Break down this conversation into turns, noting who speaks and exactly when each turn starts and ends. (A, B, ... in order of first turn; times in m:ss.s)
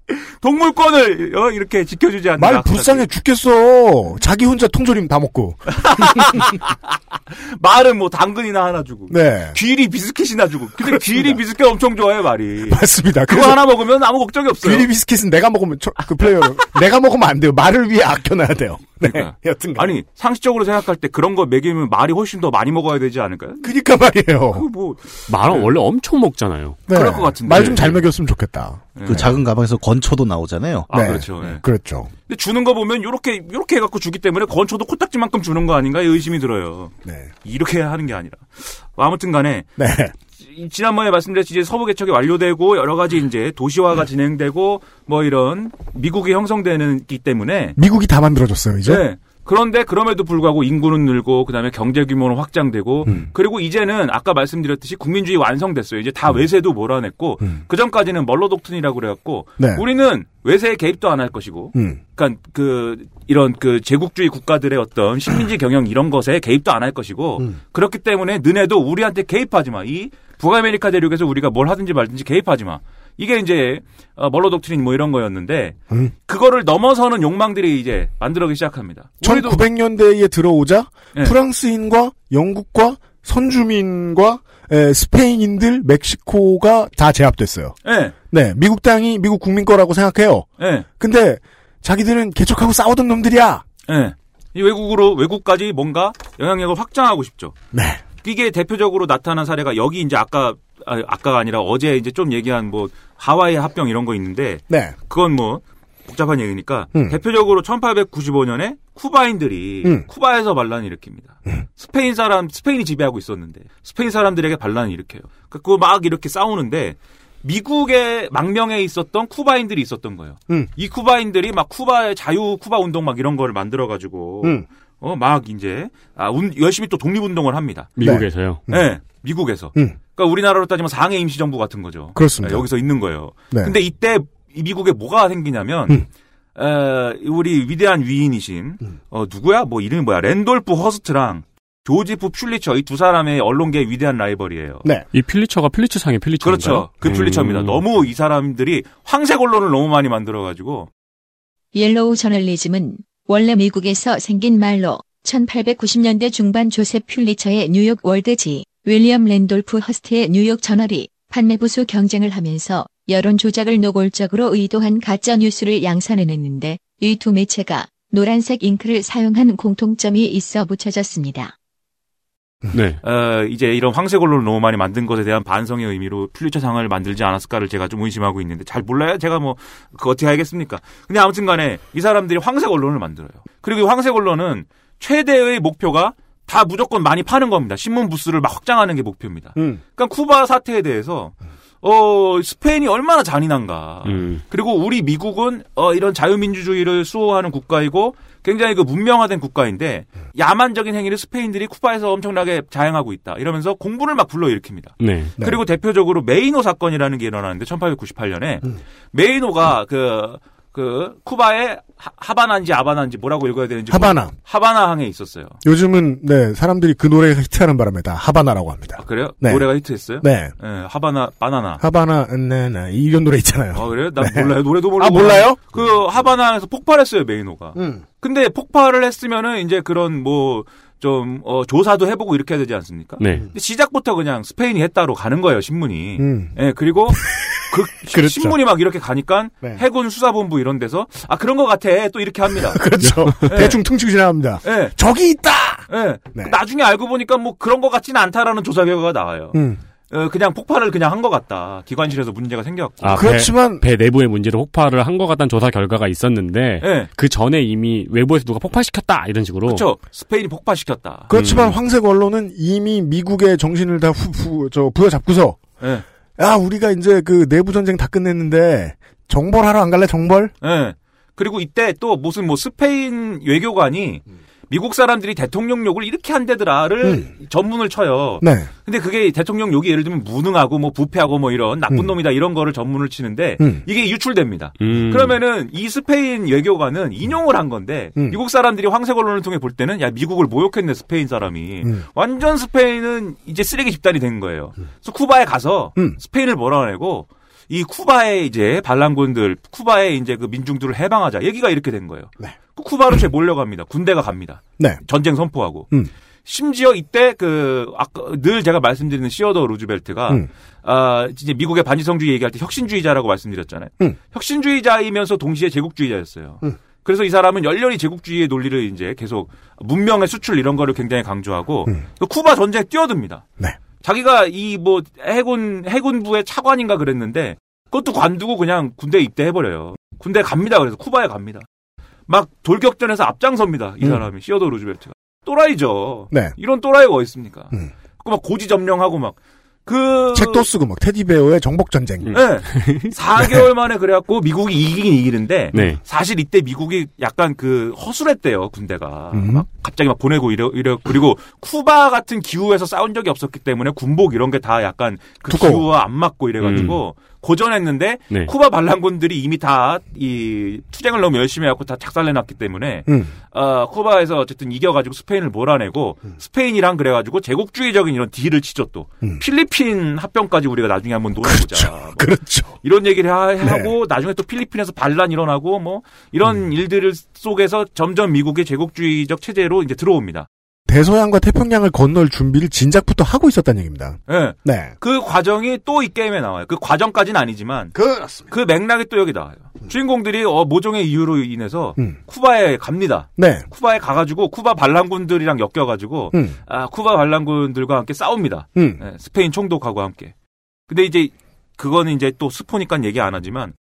0:00.1-0:03.1 A
0:02.4-0:06.4 B
0:05.7-0:14.9 A
0:09.1-0:09.6 B
0:10.8-0:11.4 B
0:12.6-0:13.6 B
0:14.6-0:19.9 B
0:19.0-0:23.7 A
0:23.6-0:24.6 B
0:24.5-0:25.7 A
0:25.3-0:26.8 C
0:26.9-0:29.3 B
0:26.9-0:27.9 A
0:27.5-0:28.0 C
0:29.0-0:29.3 A
0:29.0-0:31.1 D
0:30.9-0:31.6 A
0:30.9-0:32.1 B
0:32.3-0:36.9 A
0:37.0-0:37.3 B
0:37.4-0:39.7 A
0:39.8-0:40.1 B
0:40.4-0:47.8 A
0:47.8-0:49.0 B
0:48.8-1:15.8 A
0:59.6-0:59.8 B
1:01.7-1:02.0 B
1:16.3-1:19.6 A
1:19.2-1:27.8 B
1:27.8-1:28.1 A
1:28.3-1:30.5 B
1:30.6-1:30.8 A
1:31.0-1:33.6 B
1:33.9-1:37.5 A
1:37.7-1:38.0 B
1:38.2-2:07.9 A
2:08.0-2:08.6 C
2:08.0-2:08.9 B
2:08.7-2:24.8 A
2:12.1-2:12.7 B
2:25.1-2:27.8 C
2:26.4-2:30.9 A
2:31.7-2:51.5 E
2:52.7-2:53.0 C
2:53.0-3:35.6 A
3:09.6-3:09.8 B
3:14.0-3:14.4 C
3:25.0-3:25.3 C
3:33.9-3:34.3 B
3:35.6-3:39.7 B
3:39.0-3:41.8 A
3:40.2-3:40.5 B
3:41.8-3:45.8 B
3:43.7-4:02.9 A
3:47.8-3:48.0 B
3:53.2-3:53.5 C
3:56.2-3:56.5 B
3:57.3-3:58.6 B
4:02.6-4:06.6 B
4:03.4-4:03.8 A
4:04.6-4:04.9 A
4:05.9-4:09.6 A
4:09.5-4:09.8 B
4:10.1-4:13.3 A
4:13.0-4:19.9 C
4:13.1-4:13.8 B
4:16.8-4:17.1 A
4:19.6-4:21.3 A
4:21.3-4:25.6 B
4:21.3-4:21.8 C
4:25.8-4:26.0 A
4:26.4-4:30.5 B
4:30.6-5:05.9 A
4:37.0-4:37.3 B
4:38.4-4:38.7 B
4:44.8-4:45.4 C
5:06.4-5:23.4 A
5:24.0-5:31.6 A
5:32.3-5:40.7 A
5:40.3-5:42.4 B
5:42.2-5:43.1 C
5:42.3-6:12.3 A
5:45.7-5:46.0 C
5:49.3-5:49.6 B
5:55.5-5:55.8 B
5:56.6-5:57.0 C
6:03.1-6:03.3 B
6:11.4-6:12.8 B
6:12.8-6:20.5 A
6:13.6-6:13.9 B
6:20.9-6:24.9 B
6:24.3-6:27.9 A
6:27.9-6:28.5 B
6:28.5-6:40.3 A
6:33.4-6:33.6 B
6:40.9-6:43.7 A